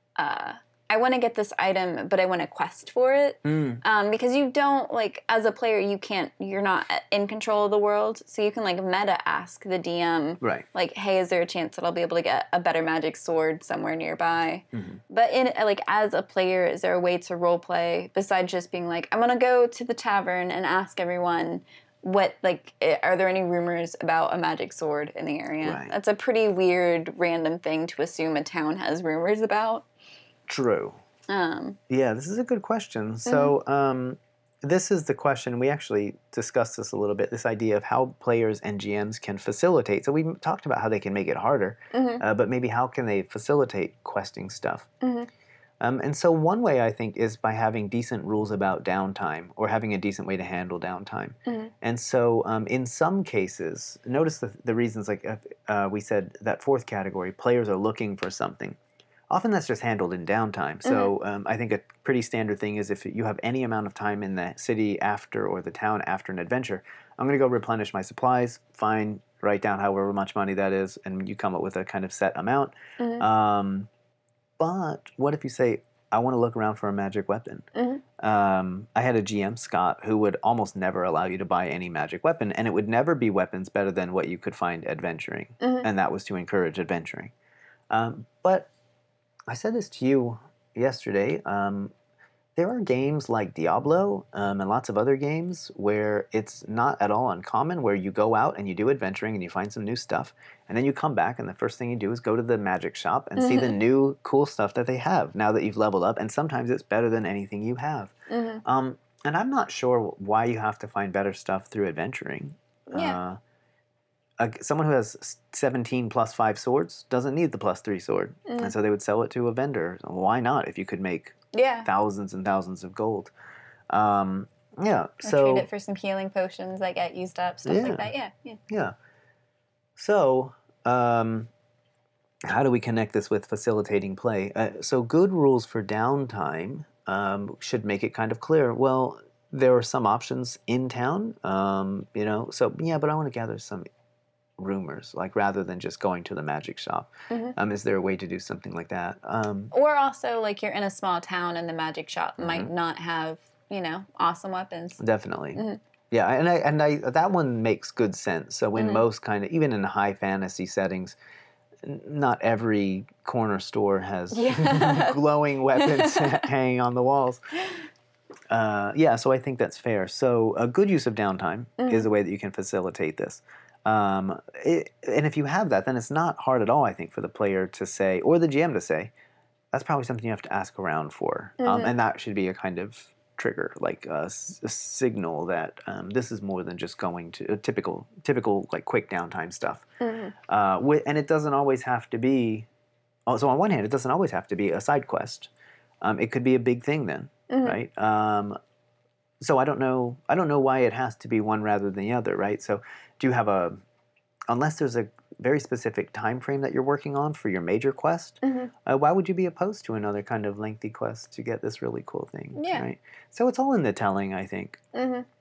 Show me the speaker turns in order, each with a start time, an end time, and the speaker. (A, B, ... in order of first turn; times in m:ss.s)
0:00.2-0:29.8 A
0:03.4-0:03.8 B
0:10.4-0:10.6 B
0:14.7-0:15.0 B
0:25.6-0:25.9 B
0:30.5-0:31.0 B
0:31.3-0:31.8 A
0:31.9-0:44.9 B
0:33.2-0:33.5 A
0:41.9-0:42.2 A
0:45.0-0:45.3 A
0:45.8-0:58.8 B
0:51.4-0:51.7 A
0:59.3-1:13.9 B
1:00.8-1:01.1 A
1:13.0-1:13.2 A
1:14.6-1:27.3 B
1:17.7-1:18.0 A
1:25.6-1:25.9 A
1:27.9-1:28.7 B
1:29.5-1:31.9 B
1:32.6-1:53.4 B
1:43.4-1:43.8 A
1:48.3-1:48.6 A
1:52.9-1:53.2 A
1:54.4-2:03.3 B
1:58.5-1:58.7 A
2:01.5-2:01.9 A
2:03.9-2:05.7 B
2:05.2-2:08.6 A
2:07.6-2:08.1 B
2:08.7-2:08.9 B
2:10.0-2:11.5 B
2:12.4-2:23.8 B
2:24.6-2:29.7 B
2:27.3-2:27.6 A
2:29.7-2:35.0 A
2:32.4-2:32.7 B
2:35.0-2:41.2 B
2:35.5-2:35.8 A
2:38.8-2:39.0 A
2:41.8-2:47.4 B
2:44.3-2:45.2 A
2:45.7-2:46.4 A
2:48.5-2:59.1 B
2:51.8-2:52.0 A
2:59.7-3:09.9 B
3:01.6-3:01.9 A
3:10.0-3:10.3 A
3:10.5-3:12.7 B
3:13.3-3:15.5 B
3:16.0-3:18.6 B
3:17.5-3:17.8 A
3:19.4-3:23.8 B
3:24.5-3:34.8 B
3:28.4-3:28.7 A
3:32.6-3:32.8 A
3:34.9-3:35.3 A